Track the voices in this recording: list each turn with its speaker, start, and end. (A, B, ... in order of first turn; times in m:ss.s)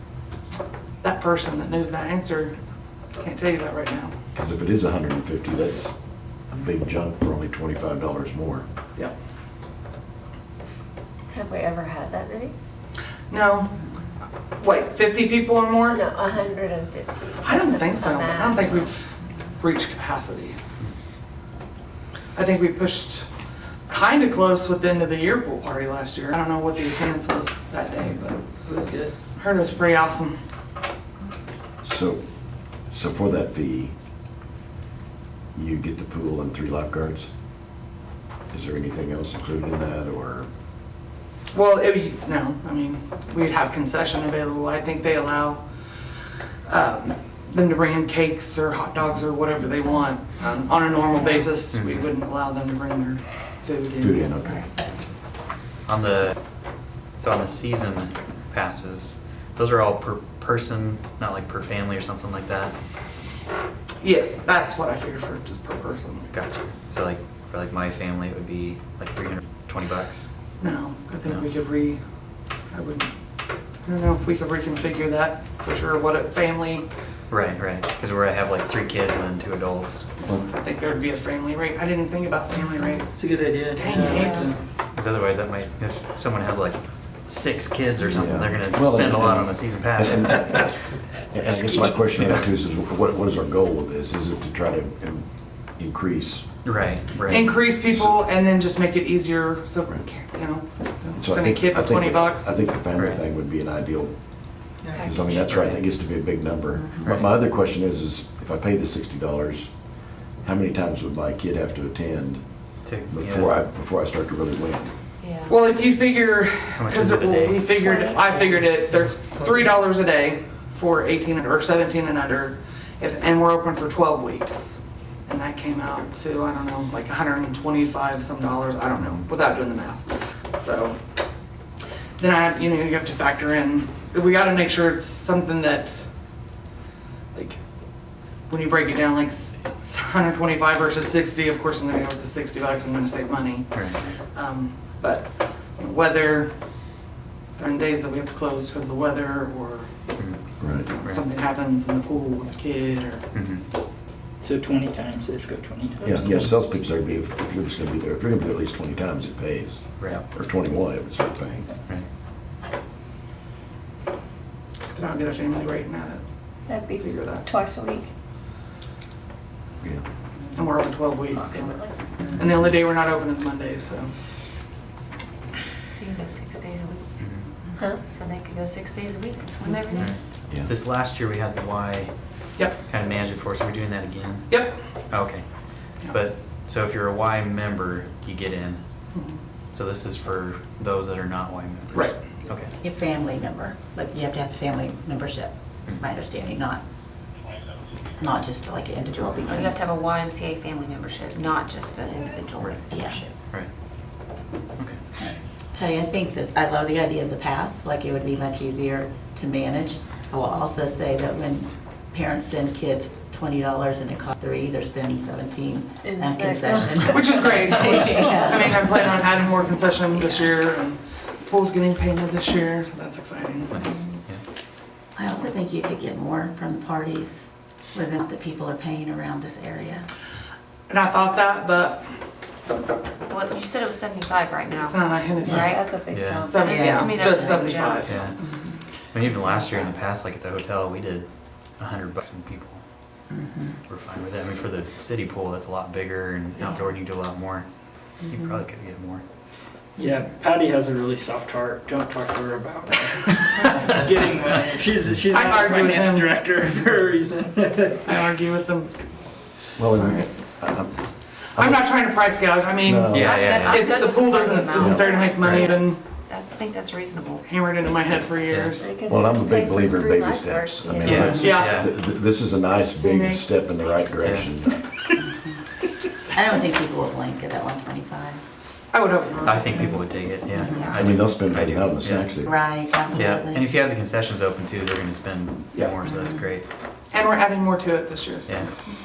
0:01.0-0:02.6 A
0:03.2-0:04.1 A
0:04.4-0:05.9 B
0:06.5-0:08.7 B
0:11.3-0:12.5 C
0:13.3-0:13.8 A
0:14.6-0:16.0 A
0:16.0-0:17.2 C
0:17.4-0:19.1 A
0:18.1-0:18.4 C
0:19.6-0:20.6 A
0:22.4-0:23.3 A
0:23.9-0:28.5 A
0:28.6-0:29.1 D
0:29.4-0:30.4 A
0:31.8-0:32.2 B
0:32.9-0:33.9 B
0:35.6-0:37.3 B
0:38.5-0:40.5 B
0:41.5-0:54.3 A
0:51.7-0:52.1 E
0:54.0-0:54.7 B
0:55.9-0:56.4 E
0:57.2-1:02.8 E
1:04.0-1:06.3 A
1:06.3-1:10.3 E
1:10.6-1:12.1 A
1:12.7-1:13.1 A
1:13.8-1:16.9 A
1:17.3-1:20.1 E
1:20.2-1:24.6 A
1:23.2-1:24.6 D
1:24.1-1:24.4 F
1:25.0-1:30.6 E
1:28.1-1:30.7 B
1:31.3-1:36.5 B
1:32.2-1:32.5 E
1:36.6-1:37.5 E
1:37.3-1:42.6 A
1:41.2-1:44.1 B
1:43.0-1:43.2 E
1:45.0-1:49.7 B
1:45.3-1:45.8 E
1:46.7-1:47.2 G
1:50.4-1:52.4 B
1:52.8-1:53.6 E
1:53.1-1:54.9 B
1:55.2-1:55.6 F
1:55.5-2:11.0 A
1:56.8-1:57.7 E
2:12.2-2:16.1 A
2:17.3-2:17.6 A
2:18.5-2:26.6 A
2:23.7-2:24.1 E
2:27.6-2:29.9 A
2:30.6-2:30.9 B
2:30.9-2:33.2 A
2:33.3-2:33.6 E
2:34.4-2:36.5 D
2:36.0-2:41.7 B
2:40.0-2:40.2 E
2:44.9-2:46.2 A
2:46.7-2:48.1 C
2:47.0-2:47.5 A
2:50.6-2:51.8 A
2:52.4-2:54.1 A
2:56.0-2:57.1 F
2:57.2-2:57.5 E
2:58.0-3:00.1 F
3:00.0-3:08.8 E
3:04.5-3:04.9 A
3:09.1-3:09.4 A
3:09.7-3:12.7 E
3:11.9-3:12.2 A
3:12.8-3:16.8 G
3:18.2-3:19.8 G
3:19.4-3:23.3 F
3:22.7-3:23.2 G
3:25.2-3:38.8 G
3:36.1-3:36.5 C
3:37.1-3:44.0 A
3:40.1-3:40.7 G
3:43.7-3:44.4 E
3:45.2-3:50.1 G
3:50.9-3:52.1 A
3:53.3-3:58.2 F
3:54.8-3:55.6 A
3:55.4-3:55.7 G
3:55.8-3:56.5 C
3:56.1-3:56.6 E
3:56.5-3:58.2 A
3:56.7-3:57.6 G
3:58.0-3:58.4 E
3:58.3-3:58.8 G
3:59.1-4:02.8 E
3:59.4-3:59.8 F
4:03.3-4:03.8 G
4:03.9-4:09.2 E
4:10.0-4:18.3 D
4:15.3-4:16.4 A
4:18.0-4:18.9 A
4:19.8-4:21.0 B
4:19.9-4:20.3 A
4:21.6-4:23.1 A
4:21.6-4:21.9 B
4:22.8-4:23.5 B
4:23.1-4:24.0 E
4:23.1-4:27.4 F
4:23.7-4:26.0 A
4:24.8-4:25.1 B
4:27.4-4:28.9 A
4:28.5-4:28.8 E
4:28.8-4:31.0 C
4:29.1-4:34.8 B
4:31.0-4:32.0 E
4:31.4-4:31.8 A
4:32.9-4:33.4 A
4:34.2-4:34.5 E
4:35.2-4:35.5 G
4:36.3-4:38.4 G
4:38.9-4:39.9 A
4:39.4-4:42.4 E
4:40.5-4:41.0 G
4:41.0-4:42.5 B
4:42.4-4:43.8 G
4:43.2-4:46.6 E
4:45.7-4:46.0 A
4:46.0-4:46.5 G
4:47.1-4:48.8 A